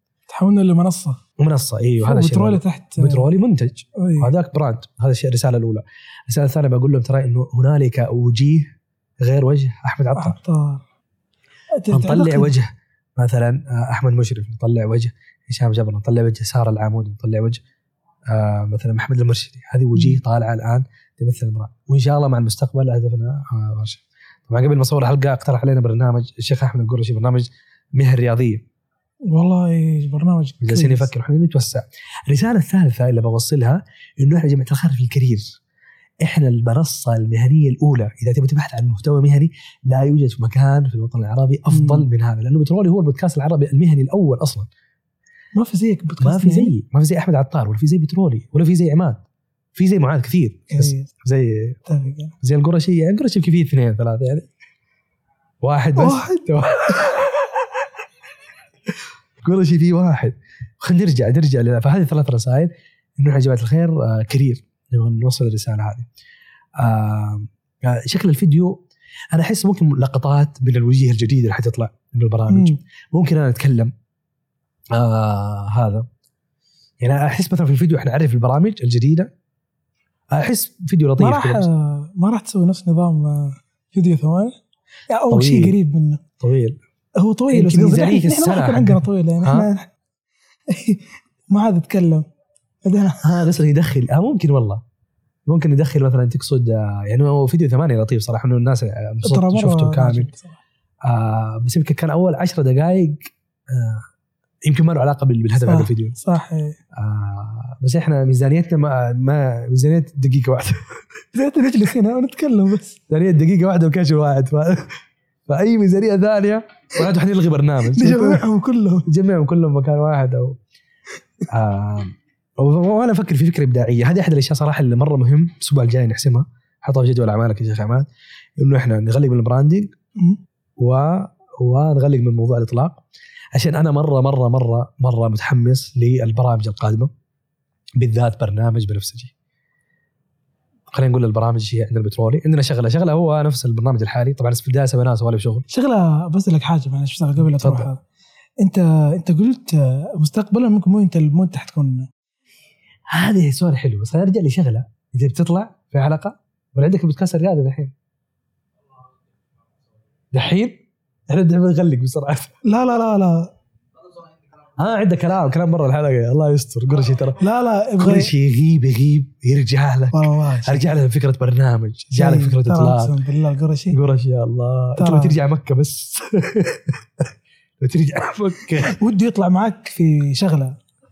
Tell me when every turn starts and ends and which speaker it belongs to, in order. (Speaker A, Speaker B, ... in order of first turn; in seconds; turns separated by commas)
Speaker A: 0.3-1.2, Speaker B: 1.4-10.3, Speaker A: 2.0-3.3, Speaker A: 4.0-4.3, Speaker A: 10.2-10.8, Speaker A: 11.8-12.5, Speaker B: 11.9-17.6, Speaker B: 18.3-28.6, Speaker A: 29.3-31.1, Speaker B: 30.6-35.6, Speaker B: 36.2-44.7, Speaker A: 41.7-42.1, Speaker A: 45.5-46.7, Speaker B: 46.2-49.2, Speaker B: 49.7-51.8, Speaker A: 50.7-51.1, Speaker A: 51.9-52.3, Speaker B: 52.4-54.5, Speaker B: 55.6-57.4, Speaker A: 56.0-56.7, Speaker B: 59.4-66.1, Speaker B: 66.8-73.9, Speaker A: 72.5-72.8, Speaker B: 74.9-76.1, Speaker B: 77.0-79.3, Speaker B: 80.3-81.7, Speaker A: 81.2-84.5, Speaker A: 85.1-86.2, Speaker B: 85.3-85.8, Speaker B: 86.4-86.8, Speaker A: 87.2-89.9, Speaker B: 87.5-89.7, Speaker A: 90.7-92.2, Speaker A: 92.8-93.4, Speaker B: 93.2-94.8, Speaker B: 95.5-100.3, Speaker A: 99.2-100.6, Speaker B: 101.1-104.0, Speaker B: 104.7-106.2, Speaker A: 105.6-106.8, Speaker B: 107.0-110.8, Speaker A: 111.3-113.0, Speaker B: 113.1-114.9, Speaker B: 115.5-118.4, Speaker A: 117.8-119.0, Speaker B: 119.0-120.6, Speaker B: 121.5-128.1, Speaker B: 128.6-129.9, Speaker B: 130.8-133.0, Speaker B: 133.5-137.1, Speaker B: 138.0-139.3, Speaker B: 140.9-145.6, Speaker A: 145.7-148.0, Speaker B: 147.4-147.9, Speaker A: 148.6-152.1, Speaker B: 153.1-157.9, Speaker B: 160.3-160.7, Speaker B: 161.3-162.6, Speaker A: 162.6-163.5, Speaker B: 164.8-167.4, Speaker A: 167.4-168.3, Speaker B: 168.0-173.1, Speaker A: 170.1-170.9, Speaker A: 172.1-174.0, Speaker B: 173.9-177.2, Speaker A: 175.0-175.4, Speaker B: 177.8-179.0, Speaker A: 178.8-180.7